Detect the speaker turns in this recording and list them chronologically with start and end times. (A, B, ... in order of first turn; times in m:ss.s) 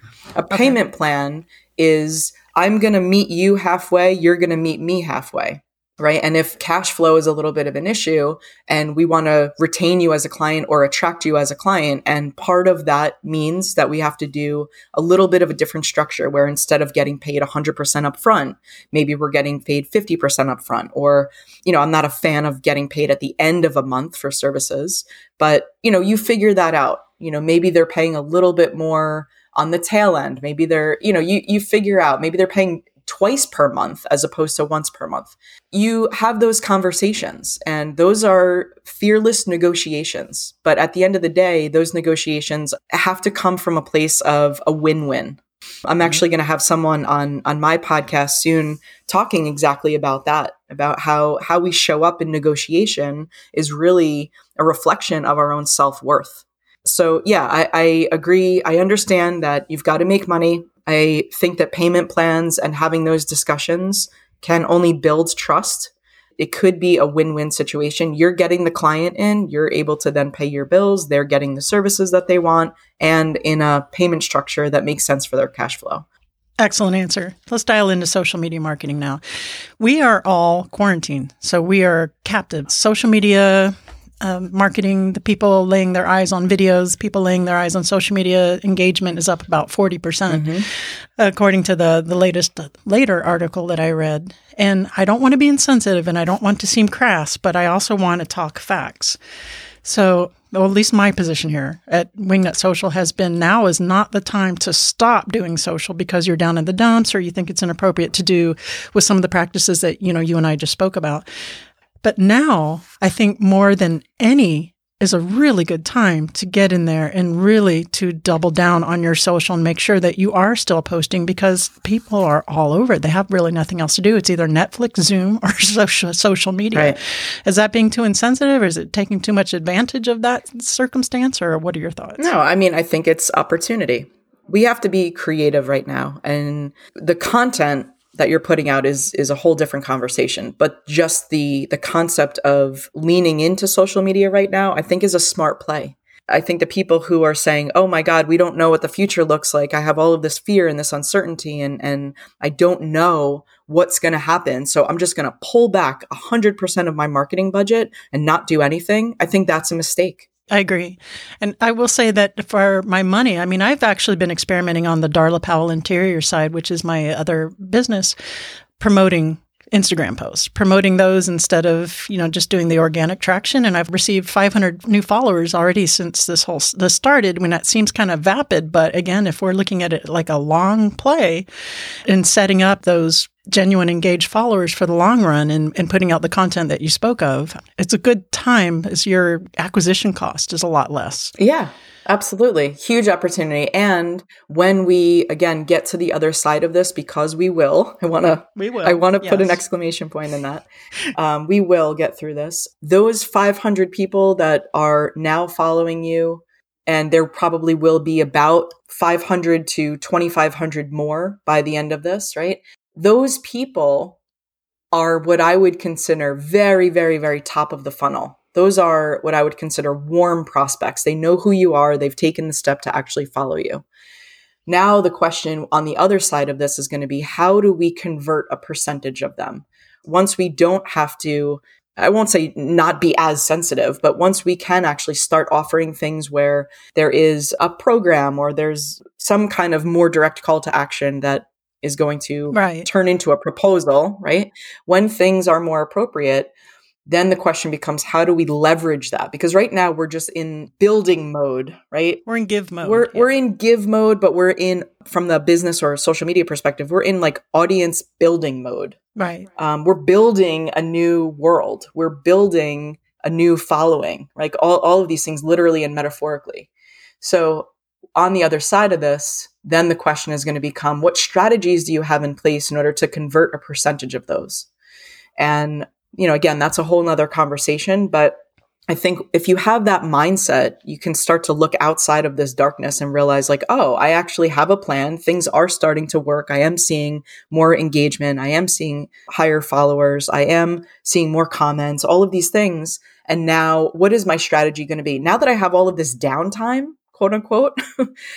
0:00.4-1:16.1 A
0:00.5-0:00.8 B
1:16.6-1:19.2 B
1:19.8-1:39.2 B
1:30.3-1:30.7 A
1:39.8-1:51.2 B
1:52.0-2:12.3 B
2:12.2-2:40.3 A
2:40.5-2:48.2 B
2:48.8-3:01.5 B
3:02.1-3:11.3 B
3:11.4-3:34.2 A
3:18.6-3:19.6 B
3:34.9-3:43.8 A
3:44.7-4:06.5 A
4:02.5-4:02.9 B
4:07.1-4:12.2 A
4:12.3-4:13.3 B
4:12.8-4:19.0 A
4:19.2-4:19.5 B
4:19.6-4:26.7 A
4:27.2-4:34.7 A
4:35.4-4:58.1 A